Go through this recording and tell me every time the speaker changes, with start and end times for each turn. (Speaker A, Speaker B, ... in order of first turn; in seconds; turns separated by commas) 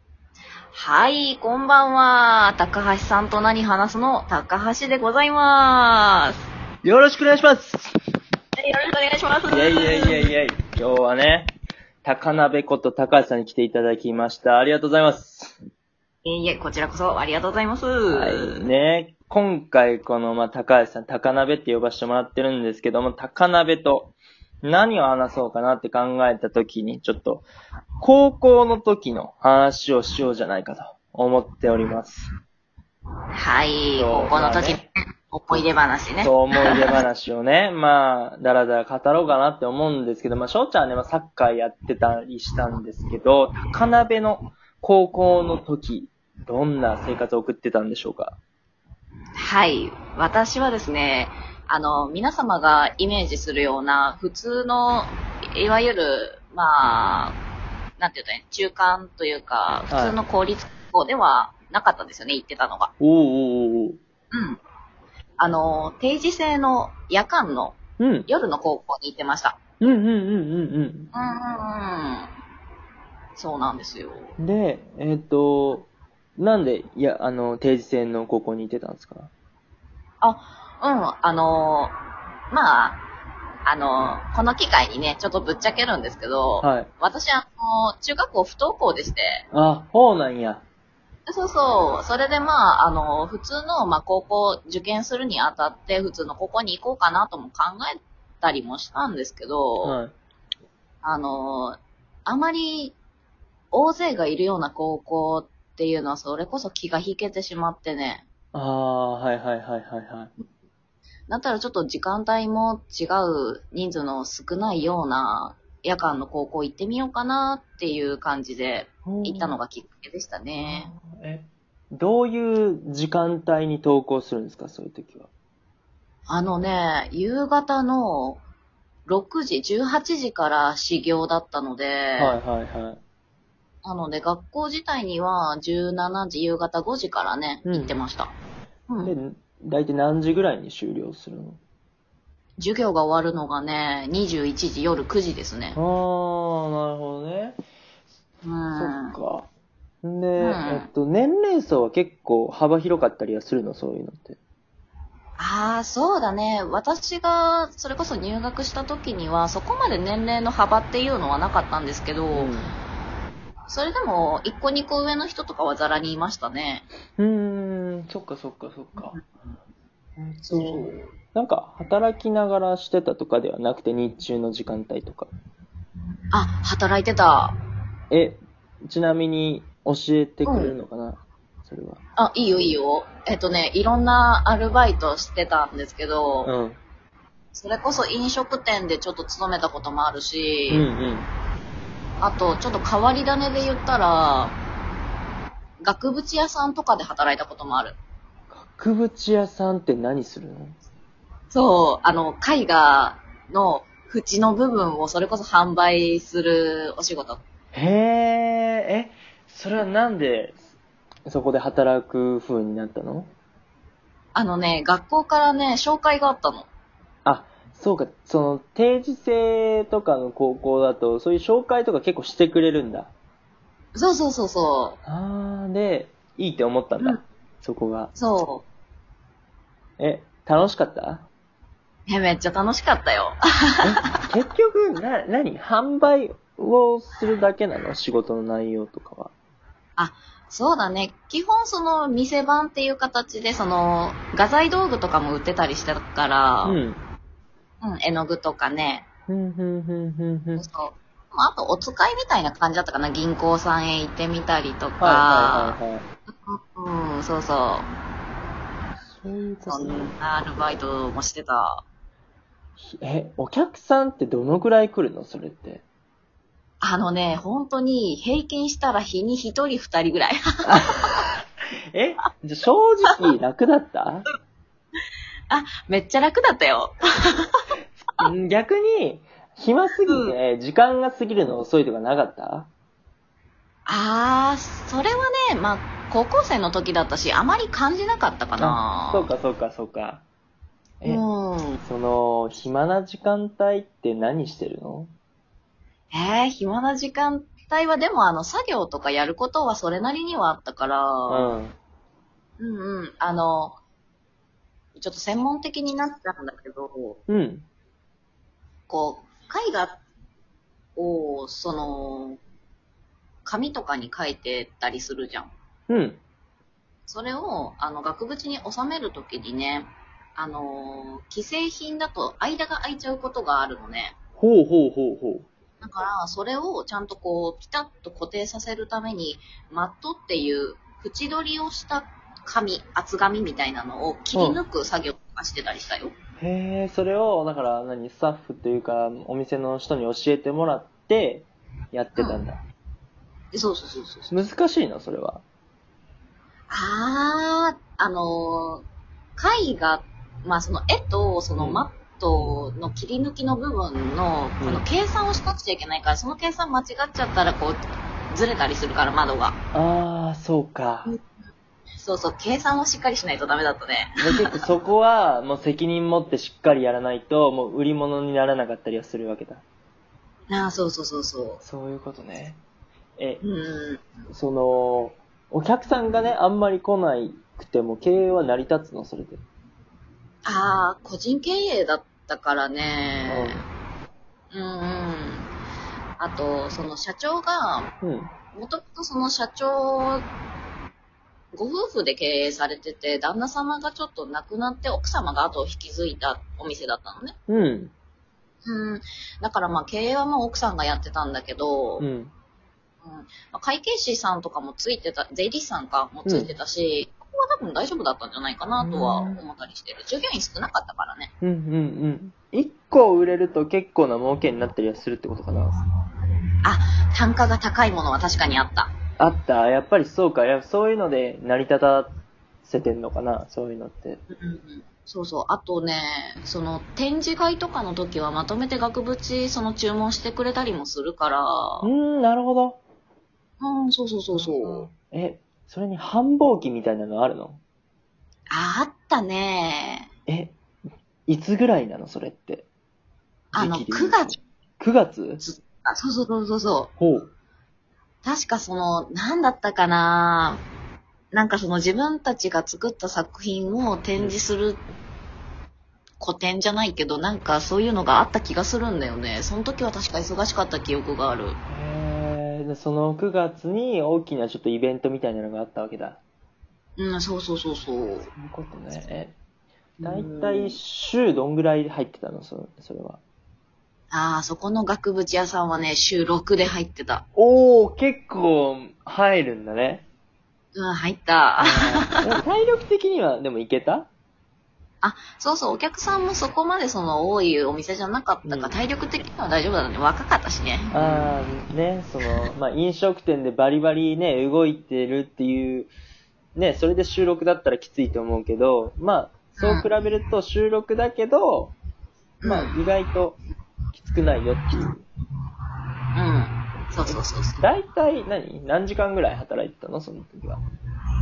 Speaker A: 0.7-6.4, Speaker B: 6.8-7.9, Speaker A: 8.6-10.3, Speaker B: 9.5-11.5, Speaker B: 12.0-15.6, Speaker A: 16.2-18.6, Speaker B: 18.1-27.5, Speaker B: 28.0-32.3, Speaker A: 33.3-37.0, Speaker B: 34.0-34.9, Speaker B: 36.2-48.4, Speaker A: 49.4-57.4, Speaker A: 58.0-62.9, Speaker B: 59.9-60.2, Speaker B: 63.0-64.0, Speaker A: 64.3-64.6, Speaker A: 65.4-69.6, Speaker B: 68.0-68.3, Speaker B: 69.8-71.1, Speaker A: 71.1-72.3, Speaker A: 73.3-74.3, Speaker B: 74.4-79.3, Speaker A: 80.2-82.0, Speaker A: 82.5-83.0, Speaker A: 83.7-89.4, Speaker B: 86.6-86.9, Speaker B: 89.5-90.6, Speaker A: 91.3-100.0, Speaker B: 99.8-100.1, Speaker A: 101.0-103.0, Speaker A: 103.7-108.2, Speaker B: 108.5-110.3, Speaker A: 111.3-120.9, Speaker B: 119.0-119.6, Speaker B: 120.6-125.3, Speaker A: 126.3-128.4, Speaker A: 129.1-132.4, Speaker B: 132.2-133.0, Speaker A: 133.8-138.3, Speaker B: 137.6-137.9, Speaker A: 138.9-139.1, Speaker B: 139.0-141.6, Speaker A: 142.6-145.8, Speaker B: 145.7-147.6, Speaker A: 148.4-149.2, Speaker B: 148.7-149.5, Speaker B: 150.0-154.4, Speaker A: 150.4-150.9, Speaker A: 155.4-162.5, Speaker B: 162.3-162.8, Speaker A: 163.7-166.8, Speaker B: 167.2-169.2, Speaker B: 170.2-175.3, Speaker A: 170.4-171.0, Speaker A: 176.3-177.6, Speaker B: 178.1-182.0, Speaker A: 180.4-180.7, Speaker A: 182.2-186.5, Speaker B: 186.4-186.8, Speaker A: 187.5-190.9, Speaker B: 190.7-191.3, Speaker A: 192.2-194.6, Speaker A: 195.8-198.0, Speaker B: 198.5-200.8, Speaker A: 201.5-207.4, Speaker B: 207.7-210.6, Speaker B: 211.3-213.3, Speaker A: 214.3-216.7, Speaker B: 217.2-223.1, Speaker A: 223.9-225.0, Speaker B: 225.0-228.1, Speaker A: 228.1-228.6, Speaker B: 230.0-231.3, Speaker A: 232.1-233.8, Speaker B: 233.8-239.3, Speaker A: 240.0-246.8, Speaker B: 246.6-247.0, Speaker A: 247.8-249.1, Speaker B: 249.3-250.7, Speaker A: 250.6-255.8, Speaker B: 255.0-256.1, Speaker A: 256.3-257.9, Speaker B: 259.0-260.1, Speaker A: 259.6-261.8, Speaker B: 262.8-265.8, Speaker A: 266.8-271.1, Speaker B: 270.6-271.3, Speaker B: 271.9-274.3, Speaker A: 275.5-277.6, Speaker B: 278.2-282.7, Speaker A: 280.1-280.3, Speaker A: 283.9-289.3, Speaker B: 288.6-290.2, Speaker A: 291.0-291.8, Speaker B: 291.8-295.1, Speaker A: 296.1-301.5, Speaker B: 301.3-301.7, Speaker A: 302.6-303.8, Speaker A: 304.9-307.2, Speaker B: 307.3-307.6, Speaker A: 308.9-310.0, Speaker A: 310.9-312.4, Speaker A: 313.4-315.5, Speaker B: 315.9-316.2, Speaker A: 317.1-324.1, Speaker B: 324.4-325.4, Speaker A: 325.8-336.1, Speaker B: 334.3-334.6, Speaker B: 336.4-342.6, Speaker A: 342.1-342.4, Speaker A: 343.5-344.3, Speaker B: 344.3-345.4, Speaker A: 346.7-348.8, Speaker A: 349.4-359.6, Speaker B: 351.6-351.9, Speaker B: 354.6-354.9, Speaker B: 359.7-361.1, Speaker A: 362.0-364.5, Speaker B: 364.2-369.6, Speaker A: 370.5-371.6, Speaker B: 371.6-372.6, Speaker A: 373.4-374.0, Speaker B: 374.3-379.4, Speaker A: 380.4-383.6, Speaker B: 383.3-383.6, Speaker A: 384.5-385.5, Speaker A: 386.2-387.9, Speaker B: 388.0-388.3, Speaker A: 388.5-390.3, Speaker A: 391.5-397.4, Speaker B: 397.5-397.9, Speaker A: 398.6-402.1, Speaker B: 402.0-402.3, Speaker A: 403.0-411.3, Speaker B: 406.2-406.5, Speaker B: 408.8-409.4, Speaker B: 411.4-415.8, Speaker A: 416.6-418.9, Speaker B: 419.2-424.2, Speaker A: 424.3-431.9, Speaker B: 431.8-432.8, Speaker A: 433.6-434.9, Speaker B: 434.3-437.6, Speaker A: 438.5-440.1, Speaker B: 440.3-440.5, Speaker B: 441.3-442.6, Speaker A: 443.5-444.4, Speaker B: 443.6-445.4, Speaker A: 445.4-446.9, Speaker B: 447.0-447.3, Speaker A: 448.2-450.6, Speaker A: 451.3-454.8, Speaker A: 456.2-461.6, Speaker B: 461.7-466.2, Speaker A: 467.0-468.3, Speaker B: 468.2-469.4, Speaker A: 470.0-470.8, Speaker B: 470.0-473.2, Speaker A: 474.1-477.2, Speaker B: 477.3-480.0, Speaker A: 480.7-482.4, Speaker B: 481.6-484.1, Speaker A: 485.0-491.4, Speaker B: 488.4-488.8, Speaker B: 490.9-495.9, Speaker B: 496.5-501.7, Speaker A: 499.6-499.9, Speaker A: 502.4-502.7, Speaker B: 502.4-503.4, Speaker B: 503.9-505.0, Speaker A: 506.1-507.6, Speaker B: 507.1-510.6